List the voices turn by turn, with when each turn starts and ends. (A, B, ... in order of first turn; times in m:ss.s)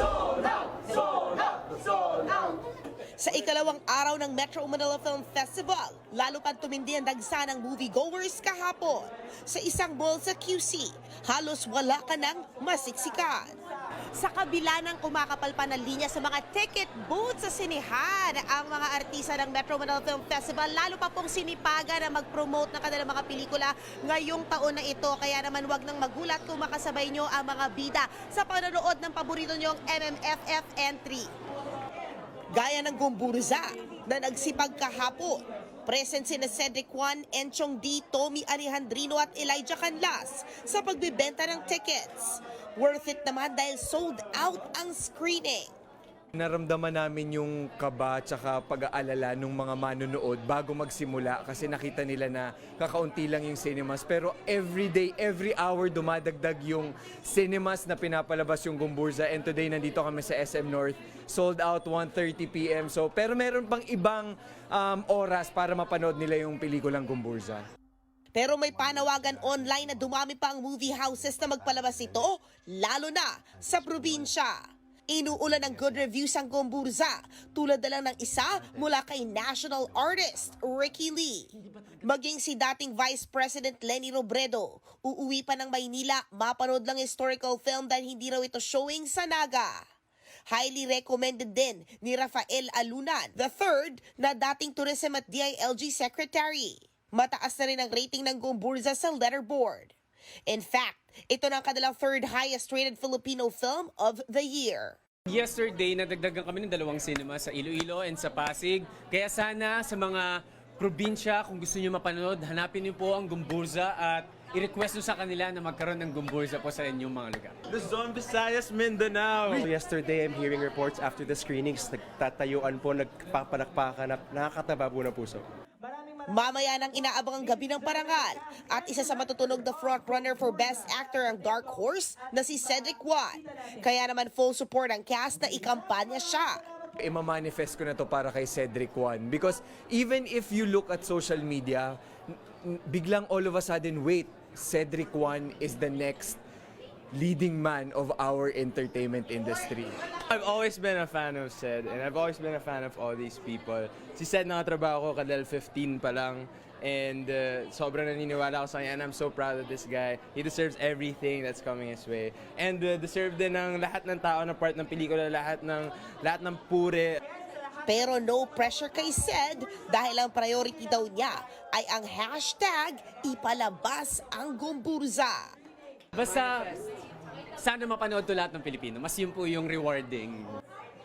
0:00.7-0:02.6 A
0:03.2-0:13.5 A
0:14.1-0:31.3 A
0:32.5-0:45.7 A
0:46.4-1:07.6 B
1:08.4-1:14.6 A
1:15.1-1:21.5 A
1:22.0-1:29.8 A
1:30.5-1:39.9 A
1:40.5-1:45.0 A
1:45.3-1:57.6 C
1:57.7-1:59.7 D
1:59.5-2:05.5 E
2:06.3-2:16.6 A
2:17.0-2:22.0 B
2:22.6-2:26.4 B
2:27.2-2:30.0 B
2:30.2-2:47.2 D
2:47.9-2:55.5 A
2:56.2-2:56.8 C
2:57.6-3:00.6 C